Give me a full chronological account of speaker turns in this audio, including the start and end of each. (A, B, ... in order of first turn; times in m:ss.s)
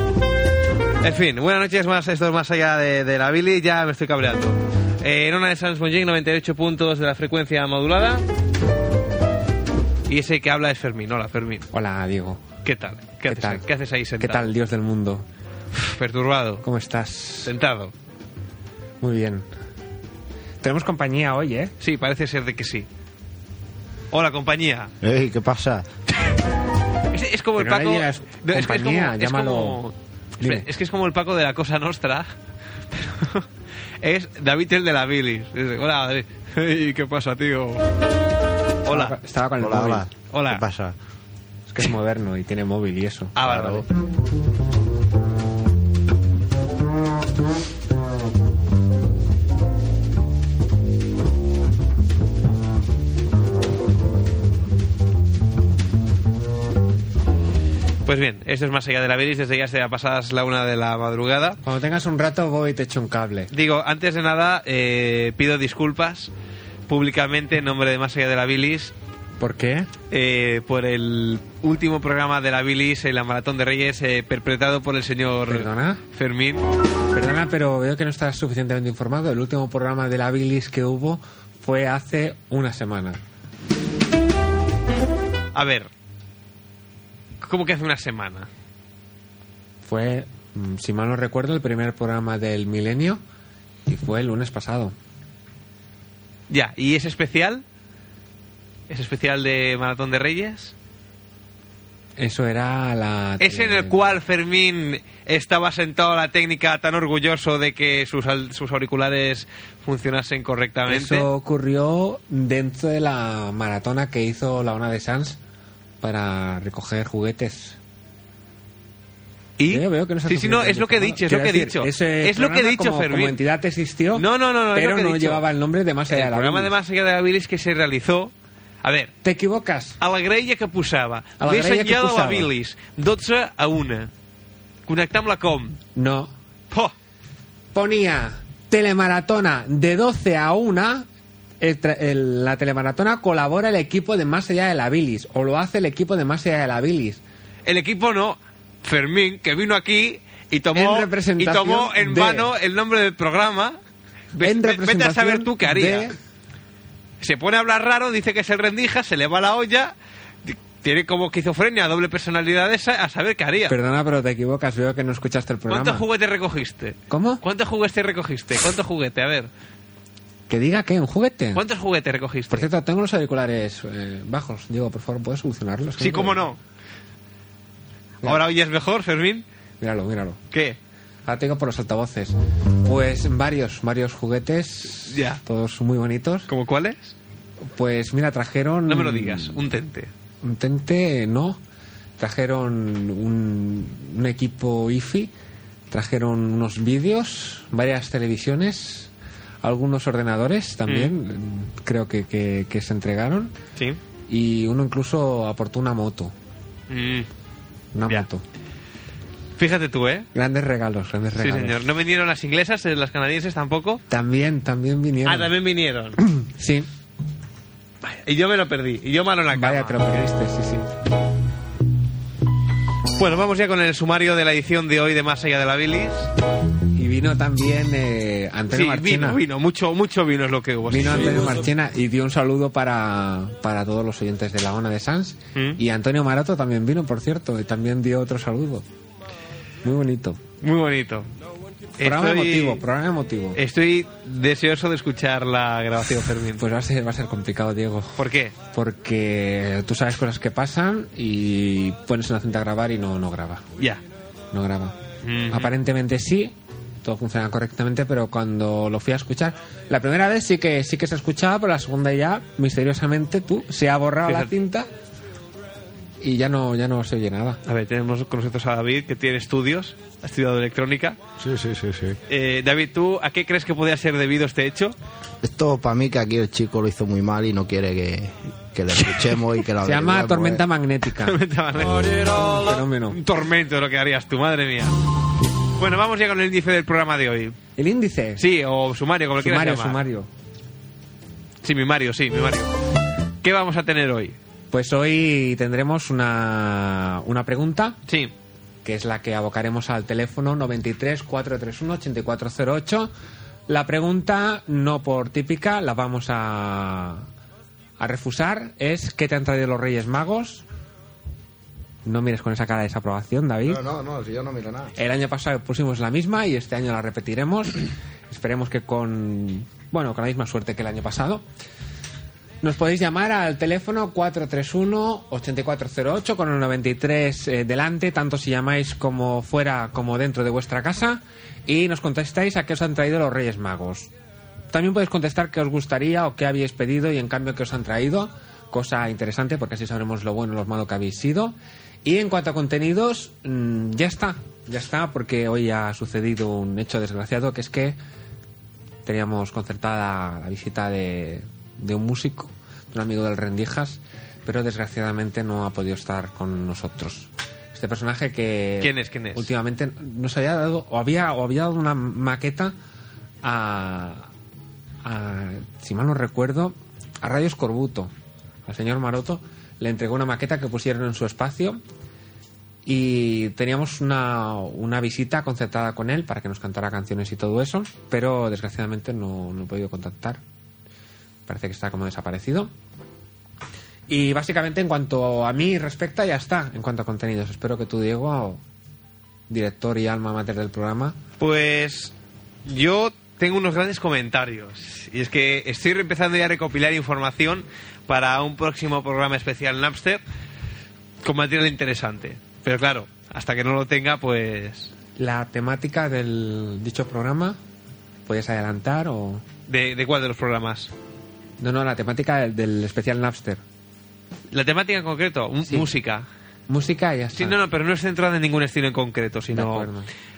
0:01.0-0:08.2 A
0:10.1-0:11.7 A
0:11.7-0:12.4 B
0:12.6-0:14.5 A
0:13.3-0:13.7 B
0:14.2-0:15.3 B
0:15.7-0:16.6 A
0:16.6-0:17.5 B
0:17.4-0:17.9 A
0:19.0-0:19.5 B
0:20.6-0:21.7 B
0:21.8-0:22.9 A
0:24.1-0:24.9 A
0:25.0-0:25.9 C
0:27.1-0:32.3 A
0:27.6-0:29.8 B
0:30.4-0:30.7 B
0:32.9-0:33.5 A
0:34.0-0:37.8 A
0:38.8-0:39.2 A
0:38.9-0:40.0 B
0:39.6-0:41.0 C
0:40.3-0:40.6 A
0:41.7-0:43.4 B
0:43.4-0:43.9 A
0:43.4-0:43.8 C
0:58.0-1:01.6 A
1:01.6-1:03.5 B
1:03.5-1:06.3 A
1:06.9-1:09.0 A
1:09.4-1:09.9 B
1:10.1-1:16.6 A
1:15.5-1:16.0 B
1:17.1-1:23.2 B
1:25.5-1:25.9 A
1:27.4-1:28.5 A
1:29.8-1:33.2 B
1:33.9-1:35.0 B
1:36.5-1:37.6 A
1:38.9-1:40.7 A
1:42.2-1:44.2 B
1:43.4-1:51.3 A
1:50.9-1:55.4 B
1:56.0-1:57.8 B
1:59.6-2:03.4 A
1:59.7-2:06.7 B
2:04.2-2:05.4 A
2:06.1-2:09.1 A
2:09.2-2:10.0 B
2:10.0-2:14.1 A
2:11.4-2:12.5 B
2:14.9-2:15.8 A
2:16.0-2:16.3 B
2:17.7-2:21.1 B
2:21.6-2:27.2 B
2:27.6-2:33.8 A
2:30.7-2:32.5 B
2:34.3-2:36.1 A
2:34.4-2:36.2 B
2:37.2-2:43.8 A
2:43.7-2:46.0 B
2:45.7-2:49.5 A
2:47.1-2:47.4 B
2:50.5-2:51.6 B
2:51.6-2:52.7 A
2:52.5-2:56.4 B
2:56.0-2:56.6 A
2:58.2-2:59.4 A
2:59.8-3:00.4 B
3:00.5-3:00.8 A
3:01.3-3:06.5 B
3:05.1-3:05.4 A
3:06.5-3:07.2 A
3:07.7-3:09.6 B
3:08.9-3:10.1 A
3:10.4-3:11.6 B
3:12.2-3:15.3 B
3:15.9-3:23.6 B
3:20.9-3:21.1 A
3:24.3-3:26.3 B
3:26.9-3:27.3 A
3:27.9-3:28.4 B
3:29.6-3:30.3 A
3:30.3-3:31.8 B
3:31.4-3:34.0 A
3:34.1-3:35.5 B
3:35.2-3:36.2 A
3:36.2-3:36.9 B
3:38.0-3:40.0 A
3:39.5-3:40.9 B
3:43.2-3:46.3 A
3:46.9-3:49.4 B
3:48.7-3:51.6 A
3:50.9-3:58.8 B
3:59.8-4:00.4 B
4:00.6-4:01.3 A
4:02.0-4:02.8 A
4:02.0-4:03.6 B
4:03.6-4:06.6 A
4:06.6-4:13.6 B
4:08.2-4:08.6 A
4:14.5-4:24.9 B
4:15.2-4:15.7 A
4:24.3-4:24.5 A
4:26.2-4:27.6 B
4:27.6-4:31.2 A
4:31.4-4:32.2 C
4:32.3-4:35.0 A
4:35.4-4:40.6 C
4:39.8-4:41.4 B
4:41.2-4:45.0 A
4:42.2-4:43.2 B
4:45.8-4:47.6 A
4:47.8-4:48.4 B
4:48.4-4:50.0 A
4:49.4-4:50.3 B
4:51.6-4:52.7 A
4:53.4-4:54.4 A
4:54.7-4:58.0 B
4:58.1-4:58.3 A
4:58.8-5:03.1 B
5:03.7-5:07.3 B
5:08.0-5:10.6 B
5:12.0-5:13.8 B
5:13.6-5:14.9 C
5:15.0-5:21.5 B
5:22.6-5:34.1 B
5:34.7-5:48.0 B
5:49.0-6:02.8 B
5:58.8-5:59.5 A
6:03.4-6:04.3 B
6:05.0-6:08.1 B
6:08.7-6:11.8 B
6:12.8-6:20.4 B
6:21.5-6:22.7 B
6:24.1-6:28.6 B
6:29.5-6:31.2 B
6:31.4-6:32.1 A
6:32.6-6:40.2 A
6:41.2-6:44.9 A
6:45.2-6:47.6 B
6:48.3-6:49.4 B
6:49.7-6:50.9 A
6:51.6-6:53.6 B
6:54.5-6:56.3 A
6:55.7-6:55.9 B
6:56.7-6:57.6 B
6:57.4-6:59.9 A
6:59.5-7:00.1 B